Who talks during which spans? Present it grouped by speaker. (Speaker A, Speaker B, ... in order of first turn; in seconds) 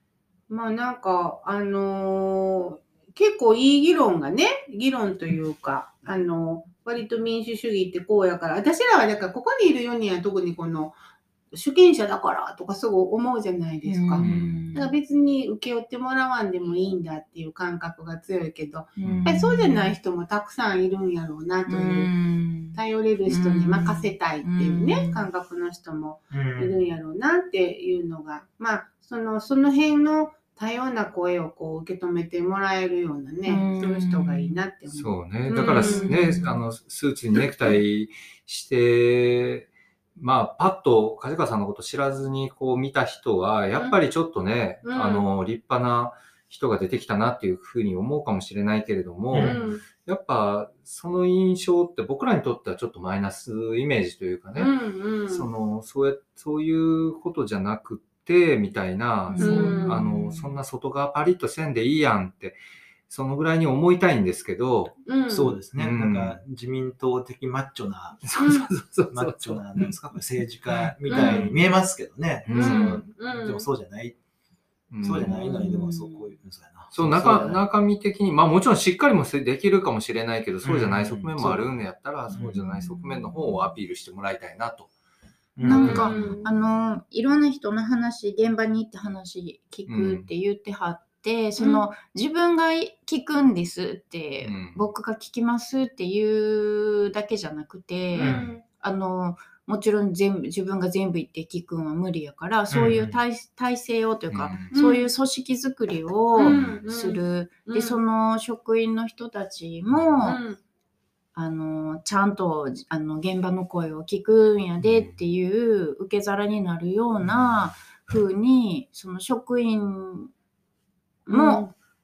Speaker A: 0.5-10.9, 11.5-22.1, 22.7-36.1, 44.8-45.2, 49.3-49.8, 54.5-55.5, 59.4-60.2, 65.0-65.6, 68.4-68.7, 71.1-71.5, 72.5-73.7, 85.6-86.5, 91.6-91.9, 98.1-98.6, 104.7-105.1, 106.3-108.0, 110.2-110.6, 121.3-121.7
Speaker B: 13.8-14.9, 19.0-19.9, 21.7-25.3, 33.5-34.6, 35.6-36.5, 59.3-60.2, 75.2-76.3, 82.3-83.7, 85.6-110.4, 111.3-120.3, 121.2-121.7
Speaker C: 14.2-14.7, 19.0-19.3, 34.9-54.7, 55.3-65.0, 65.7-66.4, 68.2-69.9, 70.7-71.6, 72.5-73.0, 74.9-75.3, 76.9-84.9, 85.7-86.3, 89.8-90.3, 94.4-94.8, 104.3-104.7, 106.5-106.8, 114.8-115.2
Speaker D: 26.3-26.8, 49.3-49.6, 65.3-68.3, 69.1-74.2, 75.0-77.6, 80.6-81.7, 85.5-86.3, 98.2-98.5, 102.7-103.2